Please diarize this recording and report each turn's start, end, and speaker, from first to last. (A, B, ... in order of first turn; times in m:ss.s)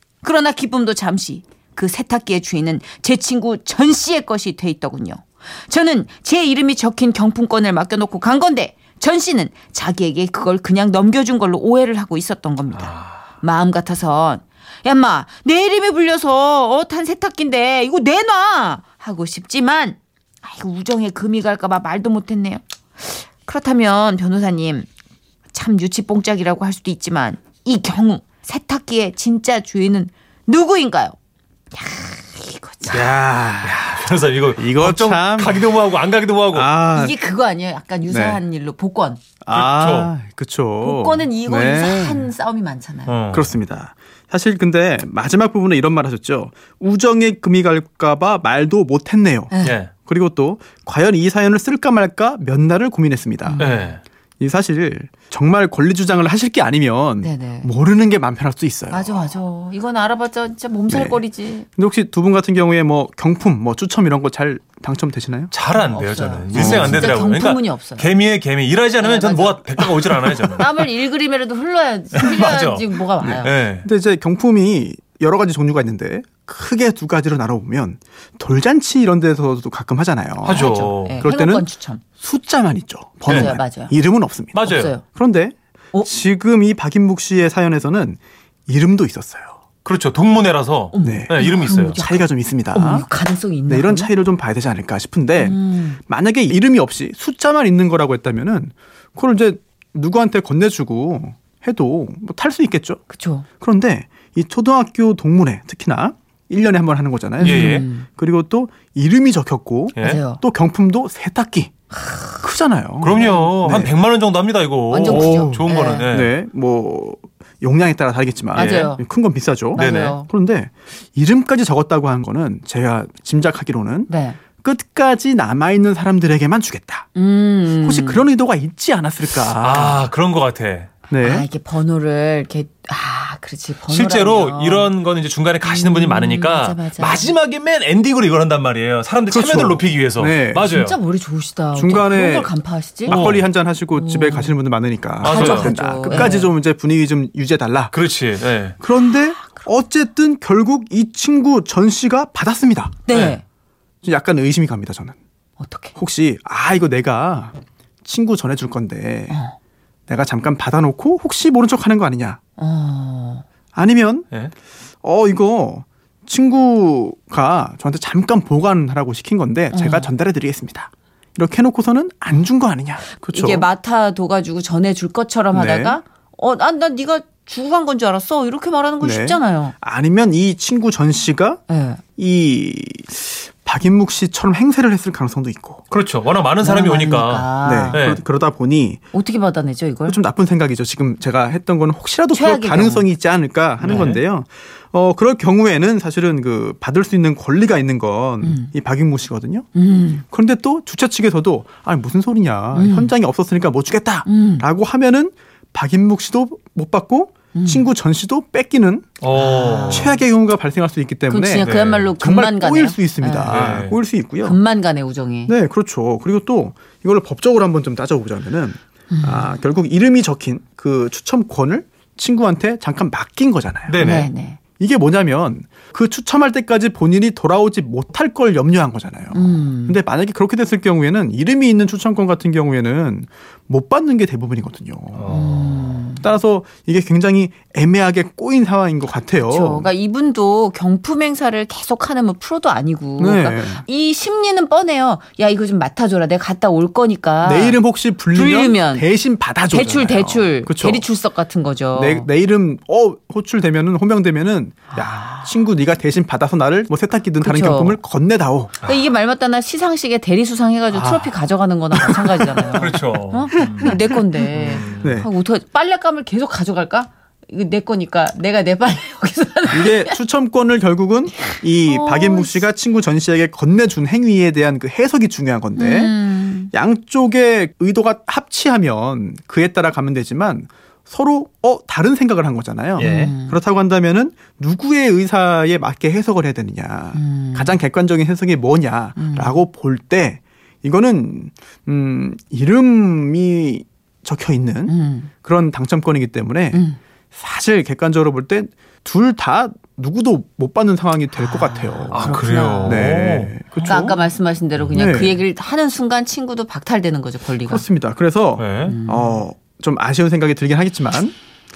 0:00.2-0:24.9 A
0:12.7-0:13.2 B
0:25.5-0:31.2 A
0:31.7-0:33.0 A
0:32.9-0:36.7 B
0:32.9-0:33.9 C
0:34.6-0:35.7 C
0:36.5-0:37.2 C
0:36.9-0:39.2 A
0:38.1-0:38.4 C
0:39.4-0:42.3 C
0:39.5-0:40.1 B
0:40.8-0:43.1 A
0:43.1-0:43.6 B
0:43.3-0:53.8 C
0:49.5-0:49.8 A
0:49.6-0:49.9 B
0:53.4-0:53.8 A
0:53.6-0:54.0 B
0:54.4-0:59.2 C
0:57.2-0:57.7 A
0:58.9-1:01.7 A
1:00.9-1:01.2 C
1:01.8-1:05.5 C
1:05.5-1:10.7 B
1:05.7-1:08.0 A
1:06.5-1:07.1 C
1:09.0-1:13.5 A
1:12.1-1:13.9 B
1:13.2-1:21.7 C
1:20.4-1:21.2 B
1:20.5-1:22.0 A
1:22.2-1:29.6 C
1:23.3-1:23.9 A
1:23.3-1:23.6 B
1:24.5-1:24.9 B
1:24.6-1:25.0 A
1:29.8-1:32.0 B
1:30.9-1:34.1 A
1:31.0-1:33.1 C
1:33.7-1:43.0 C
1:35.4-1:36.0 A
1:43.1-1:43.4 A
1:43.6-1:51.7 C
1:47.4-1:48.1 A
1:47.4-1:47.8 B
1:50.0-1:50.2 B
1:50.0-1:50.4 A
1:51.9-1:52.4 A
1:52.4-1:54.0 C
1:53.0-1:56.3 B
1:53.2-1:53.6 A
1:54.9-1:56.1 A
1:55.0-2:07.1 C
1:58.5-1:59.0 A
1:58.6-1:58.9 B
1:59.7-2:00.3 A
1:59.8-2:00.2 B
2:04.1-2:04.4 A
2:07.2-2:08.2 A
2:07.8-2:10.1 C
2:09.4-2:10.9 B
2:11.1-2:11.5 C
2:11.2-2:14.9 A
2:13.9-2:21.0 B
2:15.6-2:17.3 A
2:19.3-2:20.7 C
2:20.6-2:23.2 A
2:21.8-2:22.5 C
2:23.0-2:28.0 C
2:23.1-2:23.5 B
2:23.9-2:24.6 A
2:25.2-2:26.4 B
2:25.2-2:26.5 A
2:27.9-2:28.8 B
2:28.8-2:33.0 C
2:29.1-2:29.7 A
2:33.1-2:33.4 A
2:33.1-2:33.4 B
2:34.0-2:35.2 C
2:35.6-2:35.9 A
2:36.0-2:39.4 C
2:39.3-2:39.6 A
2:40.1-2:42.4 C
2:42.6-2:43.4 A
2:43.8-2:44.3 C
2:45.0-2:53.7 C
2:49.7-2:50.1 A
2:53.3-2:59.8 A
2:55.5-2:56.0 C
2:59.0-3:01.6 C
3:01.7-3:02.0 A
3:02.2-3:05.8 C
3:05.9-3:08.2 B
3:06.6-3:08.0 A
3:07.6-3:09.0 C
3:09.1-3:10.2 A
3:10.1-3:19.7 C
3:12.3-3:13.1 A
3:13.8-3:14.2 B
3:18.4-3:18.7 A
3:19.8-3:20.2 A
3:20.3-3:29.1 C
3:22.8-3:23.1 A
3:24.3-3:24.6 A
3:27.5-3:27.9 A
3:29.2-3:30.2 B
3:29.3-3:30.2 A
3:29.9-3:34.6 C
3:31.3-3:33.6 A
3:31.6-3:32.1 B
3:33.4-3:34.0 B
3:34.4-3:35.5 A
3:35.5-3:44.0 C
3:39.1-3:39.6 A
3:43.9-3:44.3 B
3:44.0-3:44.6 A
3:44.8-3:55.4 C
3:49.3-3:50.0 A
3:55.2-3:55.7 B
3:55.3-3:56.2 A
3:56.2-3:59.9 C
3:59.4-4:07.8 A
4:03.2-4:03.8 C
4:07.4-4:11.0 C
4:08.3-4:09.1 A
4:09.7-4:12.3 A
4:11.9-4:18.7 C
4:14.9-4:15.6 A
4:17.4-4:18.0 A
4:18.8-4:30.2 A
4:20.9-4:21.4 C
4:22.0-4:22.7 C
4:22.7-4:24.0 B
4:24.5-4:25.2 B
4:25.0-4:25.3 C
4:29.7-4:36.2 C
4:31.5-4:32.6 A
4:35.8-4:36.7 A
4:36.7-5:04.1 C
4:43.0-4:43.3 B
4:43.0-4:43.6 A
4:47.2-4:47.8 A
4:49.2-4:49.6 A
4:54.9-4:55.3 A
4:56.7-4:57.0 A
5:01.4-5:03.1 A
5:02.1-5:04.1 B
5:03.8-5:07.8 A
5:04.8-5:05.3 B
5:04.9-5:05.4 C
5:07.7-5:11.4 C
5:08.6-5:09.0 B
5:08.9-5:09.4 A